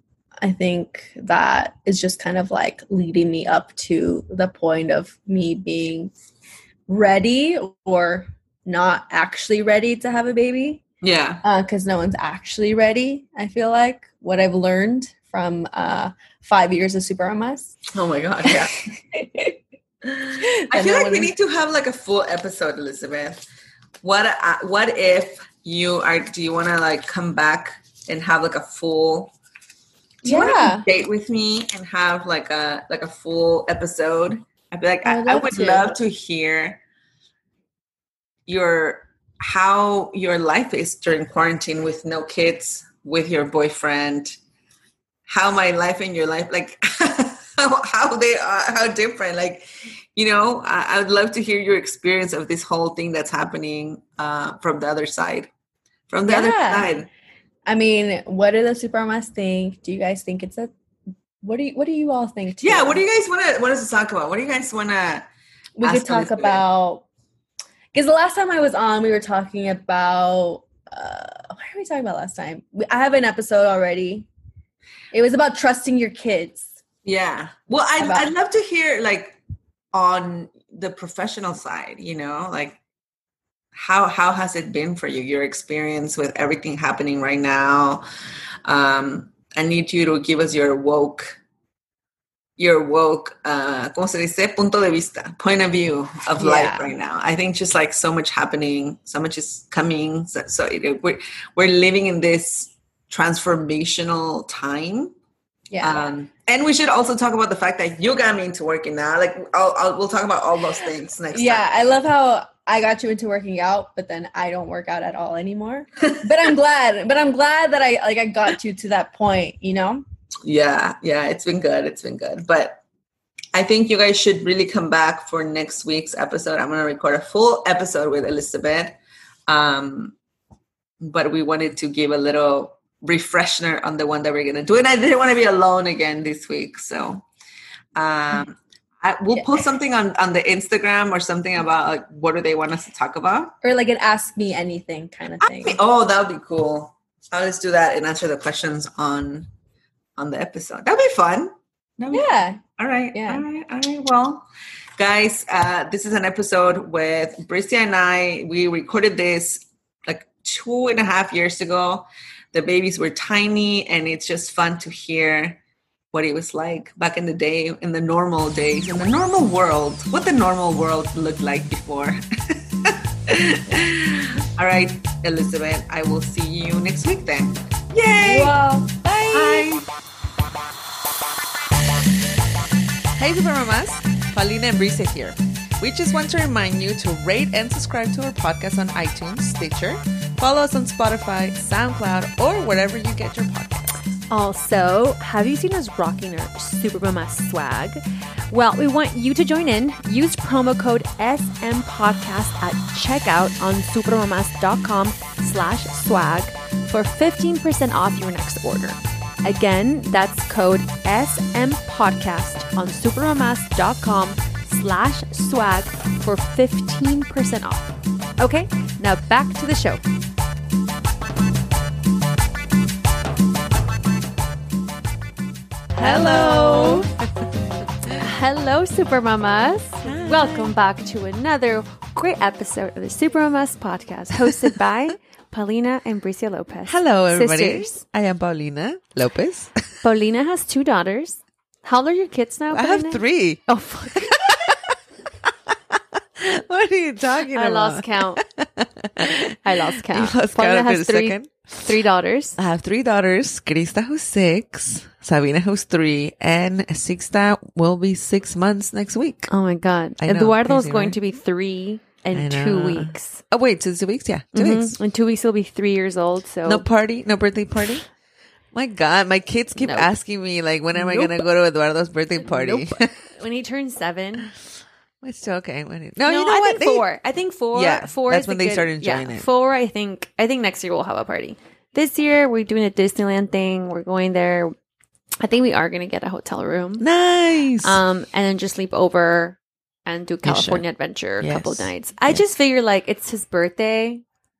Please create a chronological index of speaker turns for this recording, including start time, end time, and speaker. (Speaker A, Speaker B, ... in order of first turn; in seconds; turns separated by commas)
Speaker A: 0.4-6.1, Speaker A: 6.9-10.8, Speaker B: 11.1-11.3, Speaker A: 11.4-17.8, Speaker A: 18.5-19.6, Speaker A: 20.4-21.3, Speaker B: 20.8-23.2, Speaker B: 24.1-27.6, Speaker C: 24.8-27.3, Speaker C: 28.1-28.9, Speaker B: 28.1-29.1, Speaker A: 30.2-30.9, Speaker B: 30.3-33.9, Speaker C: 30.7-34.3, Speaker C: 34.8-36.7, Speaker A: 35.0-36.0, Speaker C: 38.5-39.0, Speaker C: 39.5-44.2, Speaker B: 42.7-43.0, Speaker C: 45.3-46.8, Speaker C: 47.9-49.6, Speaker C: 50.2-55.4, Speaker C: 56.1-56.9, Speaker A: 56.2-56.9, Speaker A: 57.6-60.7, Speaker A: 61.4-63.0, Speaker C: 62.7-65.2, Speaker A: 65.8-67.0, Speaker C: 65.8-66.5, Speaker A: 67.9-74.3, Speaker A: 75.1-76.7, Speaker C: 77.1-79.3, Speaker A: 78.0-78.3, Speaker C: 79.9-82.7, Speaker C: 83.8-88.0, Speaker C: 88.7-91.3, Speaker C: 92.6-105.1, Speaker A: 96.4-96.9, Speaker A: 105.7-106.1, Speaker C: 105.8-111.6, Speaker A: 111.3-120.0, Speaker C: 120.5-122.8, Speaker C: 123.5-128.9, Speaker C: 129.5-130.1, Speaker C: 131.1-137.2, Speaker C: 138.0-143.5, Speaker A: 139.3-139.6, Speaker A: 143.6-145.8, Speaker C: 145.5-149.5, Speaker C: 150.2-151.5, Speaker C: 152.0-152.3, Speaker A: 152.1-153.4, Speaker C: 152.8-154.4, Speaker C: 155.0-165.6, Speaker C: 166.1-172.2, Speaker C: 173.3-173.9, Speaker C: 174.6-178.5, Speaker A: 178.2-179.7, Speaker C: 179.4-179.8, Speaker B: 183.2-194.0, Speaker D: 194.3-220.0, Speaker D: 225.9-227.1, Speaker B: 226.0-227.2, Speaker D: 228.2-238.0, Speaker B: 230.0-230.7, Speaker B: 236.9-239.9, Speaker D: 240.0-244.3, Speaker B: 242.7-244.9, Speaker B: 246.4-251.9, Speaker D: 247.5-248.4, Speaker D: 249.6-252.6, Speaker B: 252.6-259.5, Speaker D: 259.5-263.4, Speaker B: 260.2-261.2, Speaker B: 262.3-264.9, Speaker D: 264.5-266.8, Speaker B: 266.6-268.1, Speaker B: 268.7-273.2, Speaker D: 269.8-270.1, Speaker D: 270.9-271.4, Speaker D: 272.4-274.5, Speaker B: 275.2-277.1, Speaker D: 276.2-284.7, Speaker B: 277.7-279.5, Speaker D: 285.4-287.0, Speaker B: 287.0-288.0, Speaker D: 287.8-294.2, Speaker B: 290.4-290.8, Speaker B: 291.4-292.4